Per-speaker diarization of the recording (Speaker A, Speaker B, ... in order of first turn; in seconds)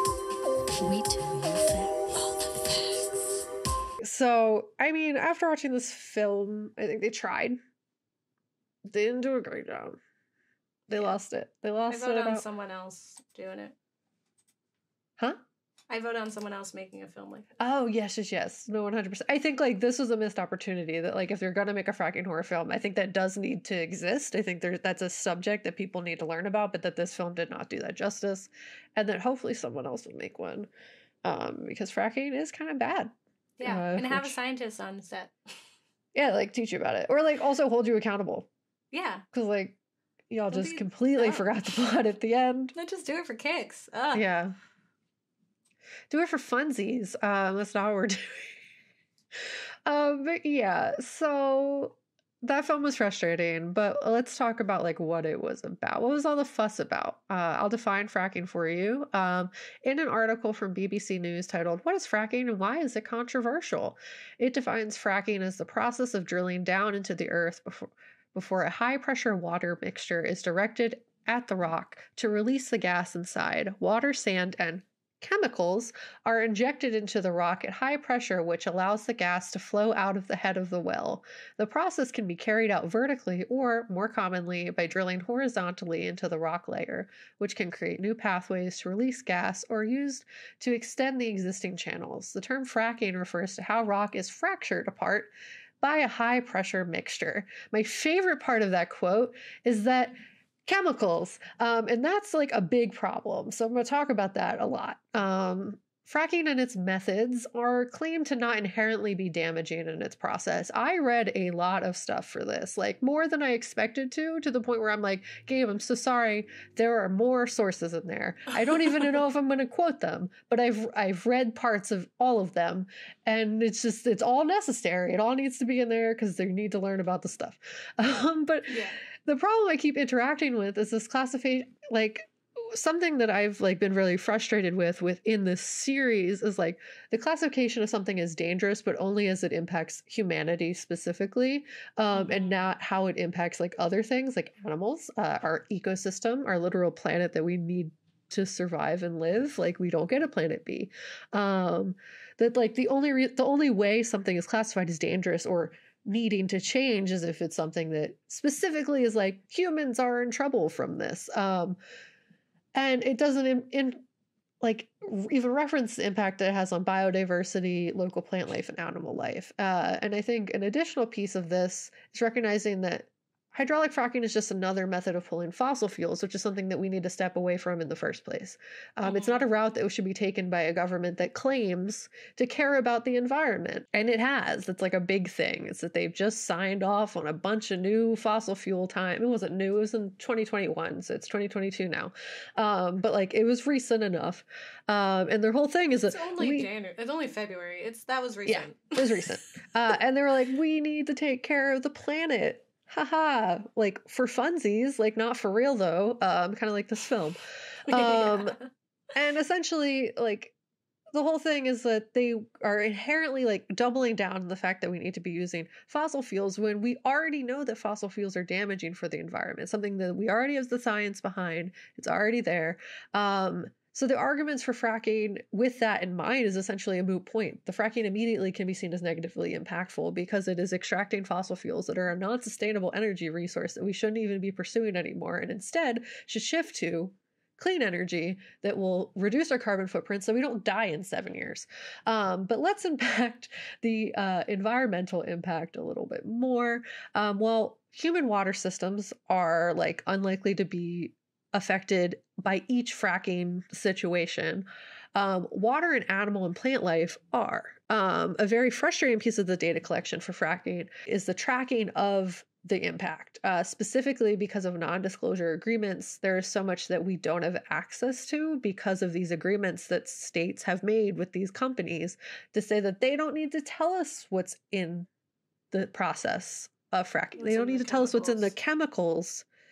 Speaker A: 0.8-3.4
Speaker B: 4.0-7.6, 8.9-10.0, 10.9-12.4, 17.6-30.7, 31.2-34.3, 36.1-38.5, 39.3-39.8, 40.3-42.7, 44.1-44.5, 46.1-48.6, 49.9-161.8, 162.8-164.0, 164.6-196.7, 198.4-208.6, 209.1-210.5, 211.1-275.1, 275.7-279.4
Speaker C: 11.9-13.8, 15.9-17.5, 33.6-35.3, 38.9-39.2, 40.5-41.5, 42.8-44.2, 128.7-129.0, 142.1-142.6, 179.0-179.5, 196.1-199.2, 207.9-208.6, 277.4-278.5